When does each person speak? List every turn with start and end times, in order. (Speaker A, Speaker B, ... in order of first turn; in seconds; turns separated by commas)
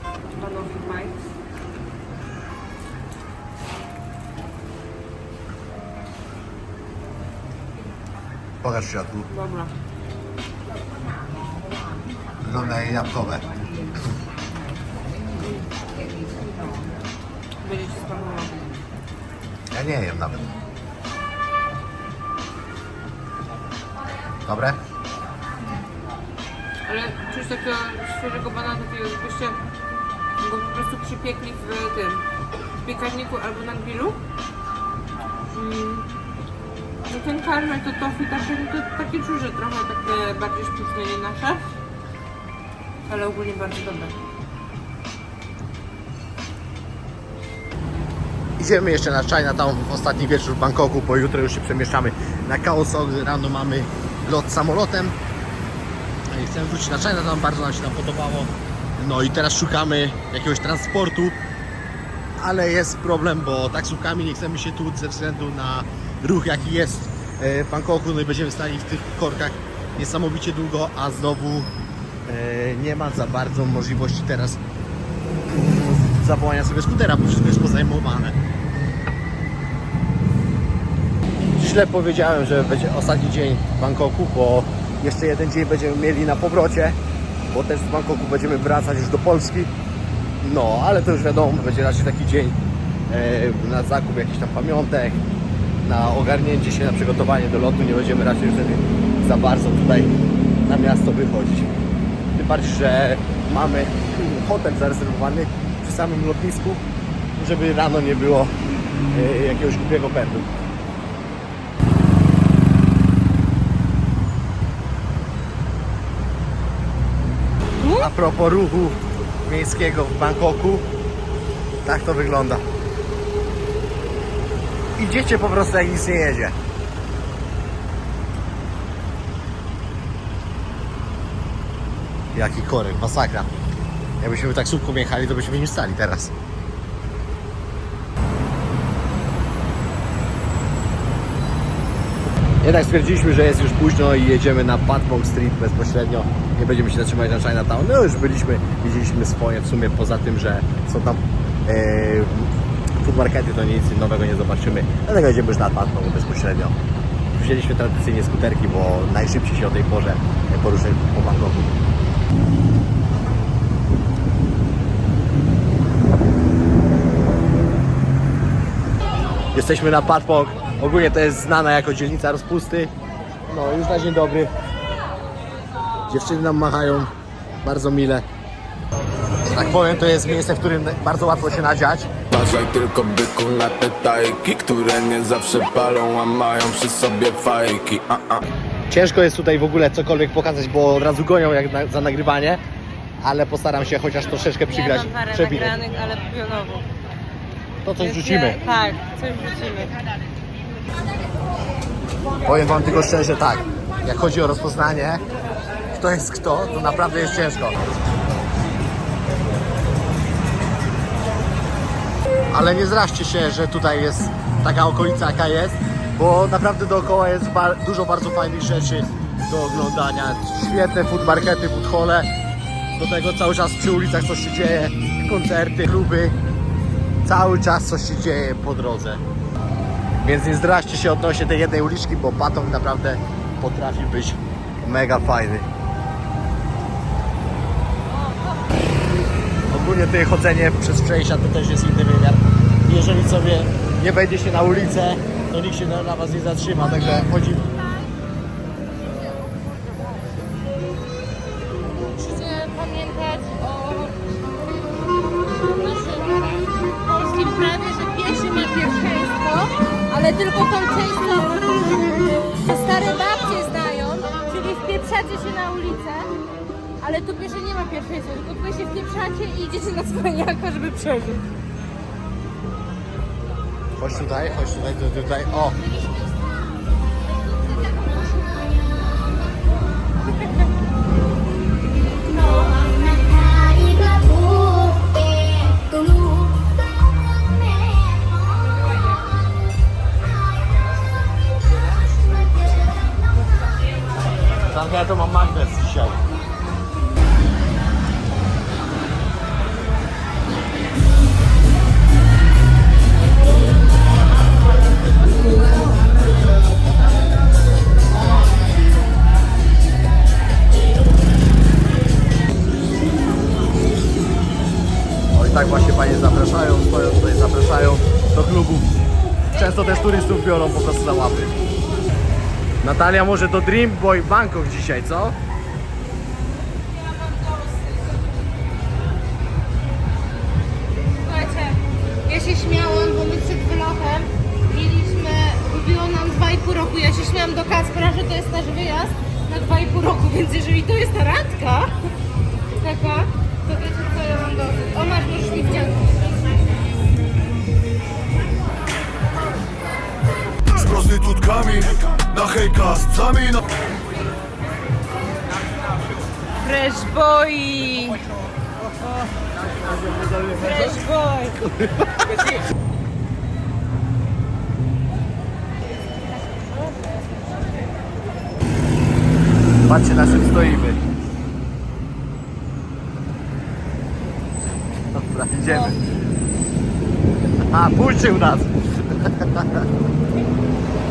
Speaker A: 0.3-1.2, Speaker B: 8.6-9.3, Speaker A: 9.3-9.7, Speaker B: 12.4-13.5, Speaker A: 17.6-18.5, Speaker B: 19.7-20.5, Speaker B: 24.4-24.8, Speaker A: 26.9-29.6, Speaker A: 30.4-32.2, Speaker A: 32.8-34.2, Speaker A: 35.5-36.0, Speaker A: 37.0-41.6, Speaker A: 43.1-44.1, Speaker B: 48.6-55.1, Speaker B: 56.3-61.4, Speaker B: 62.4-71.7, Speaker B: 72.2-74.6, Speaker B: 75.5-78.4, Speaker B: 81.5-87.0, Speaker B: 87.5-89.7, Speaker B: 90.4-92.6, Speaker B: 93.1-95.2, Speaker B: 95.8-100.1, Speaker B: 100.6-101.7, Speaker B: 102.3-106.8, Speaker B: 107.4-108.5, Speaker B: 109.1-110.5, Speaker A: 117.8-118.1, Speaker B: 118.0-120.8, Speaker B: 121.8-122.6, Speaker B: 125.0-126.5, Speaker B: 132.3-133.5, Speaker B: 134.2-136.3, Speaker B: 142.6-156.8, Speaker B: 157.3-161.8, Speaker B: 169.5-172.9, Speaker B: 173.4-174.5, Speaker B: 176.1-177.1, Speaker B: 177.6-178.2, Speaker B: 179.4-182.1, Speaker C: 182.3-188.4, Speaker B: 188.9-192.6, Speaker B: 193.2-195.8, Speaker A: 194.7-196.8, Speaker B: 197.8-198.6, Speaker A: 198.0-199.9, Speaker B: 202.4-205.2, Speaker B: 205.9-207.8, Speaker B: 212.5-222.3, Speaker B: 223.0-226.3, Speaker B: 227.2-229.2, Speaker B: 230.2-235.7, Speaker B: 239.7-247.7, Speaker A: 249.0-250.3, Speaker A: 251.9-254.1, Speaker A: 255.5-266.3, Speaker A: 267.0-271.5, Speaker B: 274.0-275.8, Speaker A: 280.1-280.7, Speaker A: 282.4-285.0, Speaker B: 294.6-296.2, Speaker B: 315.3-318.9, Speaker B: 319.5-321.6, Speaker B: 322.8-325.4, Speaker A: 326.8-328.2, Speaker A: 331.2-341.9, Speaker A: 342.7-346.5, Speaker C: 350.7-353.6, Speaker A: 356.6-358.2, Speaker B: 359.6-361.0, Speaker A: 360.5-361.6, Speaker B: 361.6-362.6, Speaker A: 366.4-367.0, Speaker B: 369.8-371.0, Speaker B: 375.1-376.0, Speaker A: 375.6-375.9, Speaker B: 377.7-379.8